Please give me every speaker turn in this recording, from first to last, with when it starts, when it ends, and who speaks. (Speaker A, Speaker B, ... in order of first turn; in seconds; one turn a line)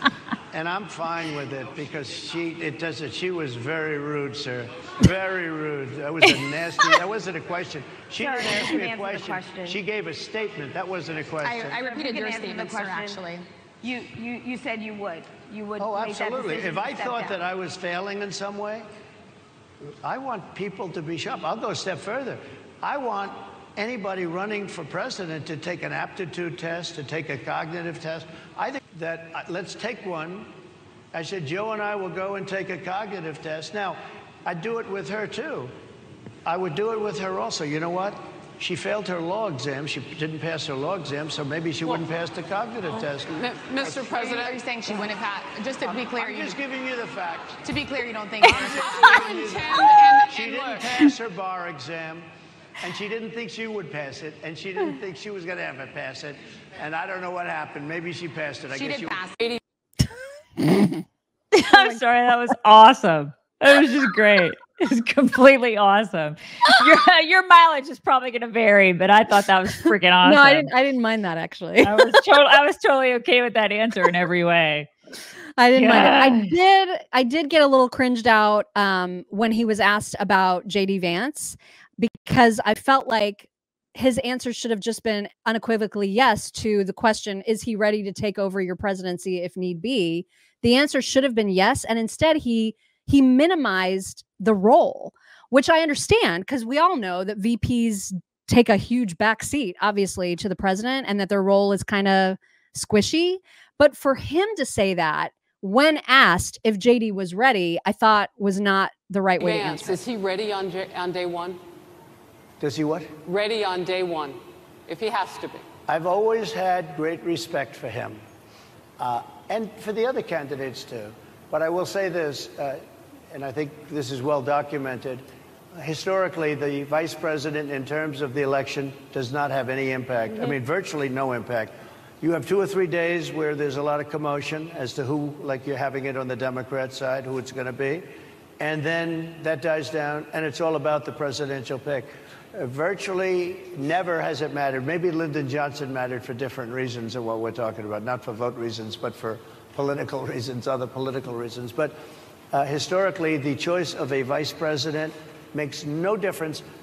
Speaker A: 0.5-11.8
Speaker B: 6.3-7.0
Speaker C: 8.2-9.8
Speaker C: 11.4-13.3
Speaker D: 11.8-13.4
Speaker C: 13.8-17.4
Speaker A: 15.8-18.8
Speaker A: 20.0-30.5
Speaker A: 31.1-35.7
Speaker A: 36.5-44.6
Speaker E: 43.4-44.5
Speaker D: 44.4-46.4
Speaker A: 46.1-47.6
Speaker D: 47.8-48.5
Speaker E: 48.3-50.8
Speaker B: 48.4-49.3
Speaker A: 48.5-52.3
Speaker A: 52.8-59.3
Speaker E: 58.7-59.6
Speaker B: 61.5-70.7
Speaker F: 61.7-62.0
Speaker F: 70.2-72.2
Speaker B: 71.8-74.9
Speaker F: 75.6-110.0
Speaker B: 75.8-76.5
Speaker E: 109.4-111.6
Speaker A: 112.6-113.1
Speaker E: 113.2-115.7
Speaker A: 115.9-118.2
Speaker A: 119.0-122.8
Speaker A: 123.3-125.2
Speaker A: 125.8-138.1
Speaker A: 138.6-151.9
Speaker A: 152.5-156.7